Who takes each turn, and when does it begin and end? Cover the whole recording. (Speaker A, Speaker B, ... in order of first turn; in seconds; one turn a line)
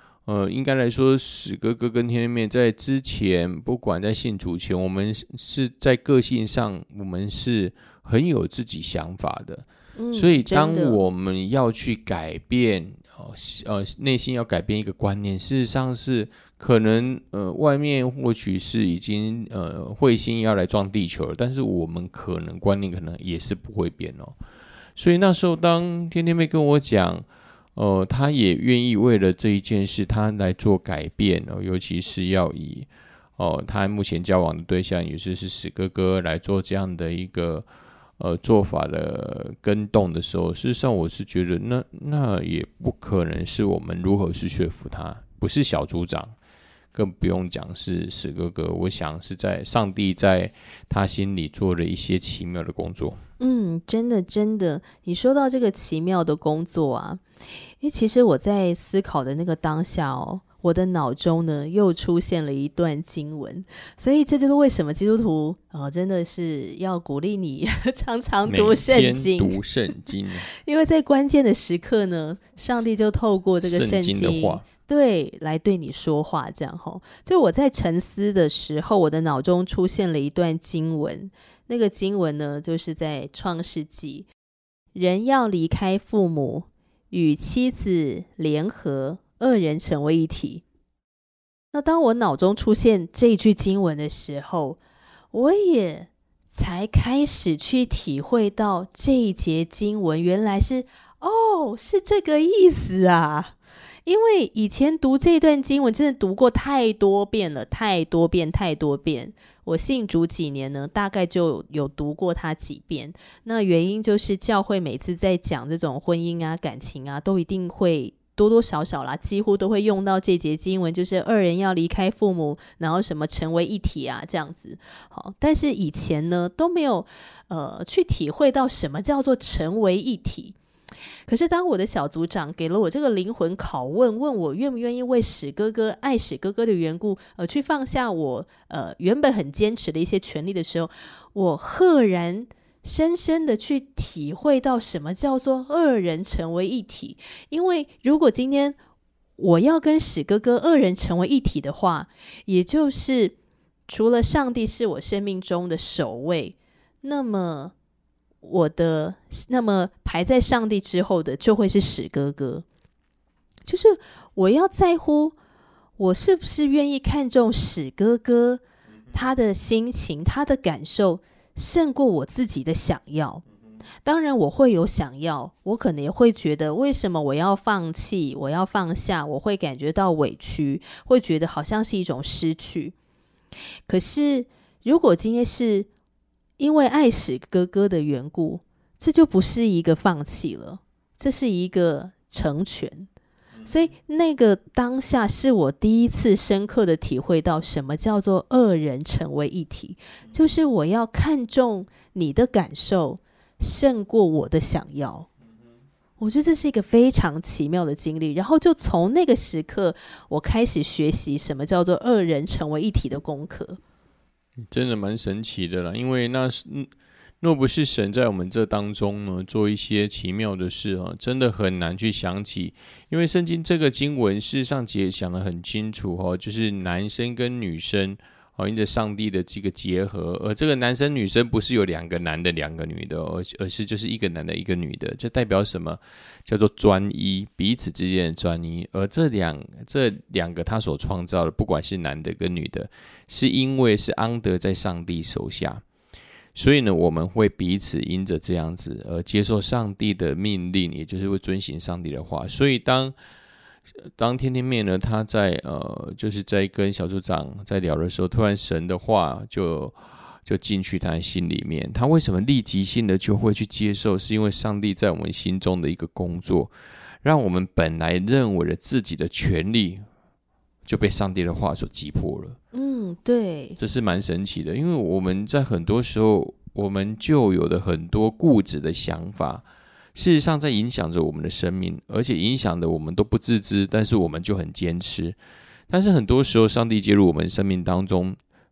Speaker A: 0.3-24.3
Speaker B: 10.0-11.0
Speaker A: 24.9-37.7
Speaker A: 38.2-46.3
Speaker A: 46.9-53.2
Speaker B: 53.4-57.2
Speaker B: 57.8-69.6
Speaker A: 68.5-70.5
Speaker B: 70.5-84.3
Speaker A: 73.6-74.6
Speaker B: 84.9-90.6
Speaker B: 91.7-94.8
Speaker B: 95.3-103.5
Speaker B: 104.0-130.5
Speaker B: 131.3-148.8
Speaker B: 149.4-153.3
Speaker B: 153.9-157.7
Speaker B: 158.4-162.6
Speaker B: 163.7-165.3
Speaker B: 166.0-168.6
Speaker B: 169.1-173.4
Speaker B: 174.0-182.9
Speaker B: 183.9-185.9
Speaker B: 186.6-193.1
Speaker B: 193.7-205.3
Speaker B: 206.2-213.8
Speaker A: 214.7-216.9
Speaker A: 217.4-245.8
Speaker A: 246.5-253.1
Speaker A: 254.1-266.7
Speaker A: 267.2-270.0
Speaker A: 270.9-272.6
Speaker B: 272.7-273.8
Speaker A: 273.8-279.6
Speaker A: 280.1-285.4
Speaker A: 285.9-288.4